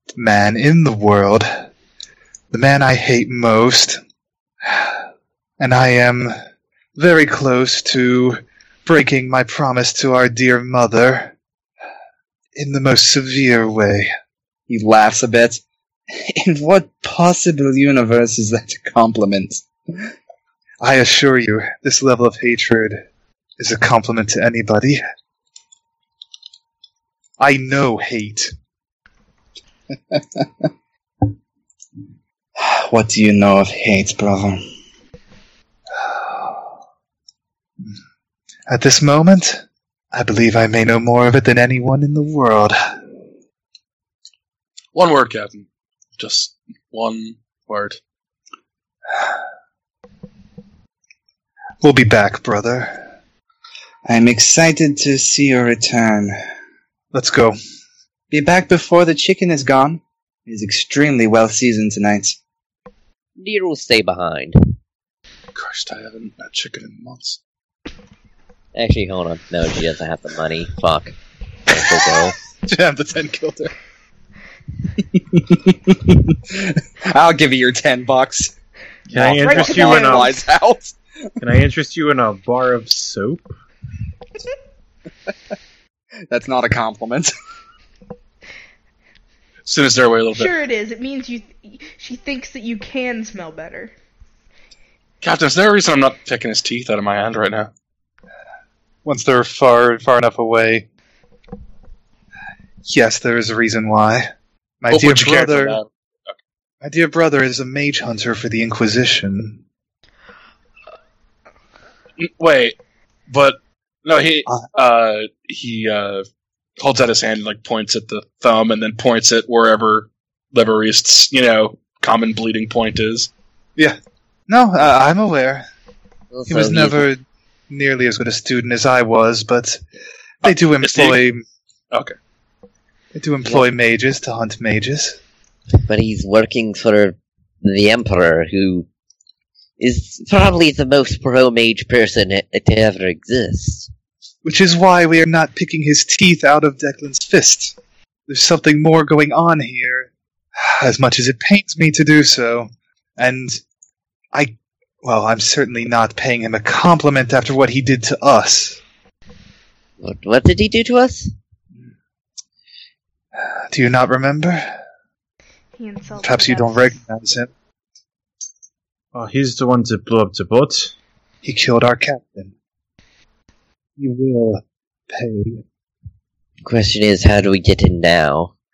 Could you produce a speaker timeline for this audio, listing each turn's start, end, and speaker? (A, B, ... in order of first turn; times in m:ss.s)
0:00.2-0:01.5 A
0:02.5-0:04.0 A
0:04.6-0:04.9 A
0:05.6-0:06.3 A
0:07.0-0:11.3 A
0:12.6-0:14.1 A
0:14.7-0:19.7 B
0:20.8-0:23.0 A
0:23.6-0:25.0 A
0:27.4-0:28.5 A
0:30.1-0:30.5 B
0:32.6-0:34.6 B
0:36.0-0:36.6 A
0:38.7-0:42.8 A
0:44.9-0:45.7 C
0:46.2-0:48.0 C
0:51.8-0:53.0 A
0:54.1-0:56.4 B
0:57.1-0:57.6 A
0:58.3-1:02.4 B
1:03.4-1:04.7 D
1:05.6-1:07.4 C
1:08.8-1:11.2 D
1:11.7-1:12.4 D
1:12.7-1:13.7 A
1:15.3-1:18.5 B
1:19.1-1:20.4 E
1:19.1-1:21.0 B
1:19.4-1:20.4 F
1:21.4-1:23.5 E
1:26.3-1:27.3 B
1:29.7-1:30.5 C
1:30.3-1:34.0 F
1:35.2-1:37.7 C
1:39.0-1:40.9 A
1:42.9-1:44.3 A
1:44.8-1:45.8 A
1:44.9-1:46.3 C
1:46.8-1:49.6 A
1:52.2-1:52.8 C
1:53.3-1:56.2 C
1:56.8-2:03.3 C
2:04.5-2:05.6 A
2:06.3-2:07.1 D
2:06.5-2:07.2 A
2:07.7-2:09.8 A
2:10.4-2:11.2 C
2:10.4-2:11.4 A
2:13.2-2:15.2 A
2:15.8-2:18.9 D
2:19.8-2:23.9 D
2:24.4-2:27.8 A
2:28.3-2:30.1 A
2:30.6-2:33.6 A
2:34.3-2:38.8 A
2:40.0-2:41.3 D
2:43.7-2:44.7 A
2:45.8-2:47.0 F
2:46.2-2:47.5 A
2:49.1-2:50.9 E
2:51.4-2:52.5 A
2:54.0-2:55.6 A
2:56.6-2:58.5 D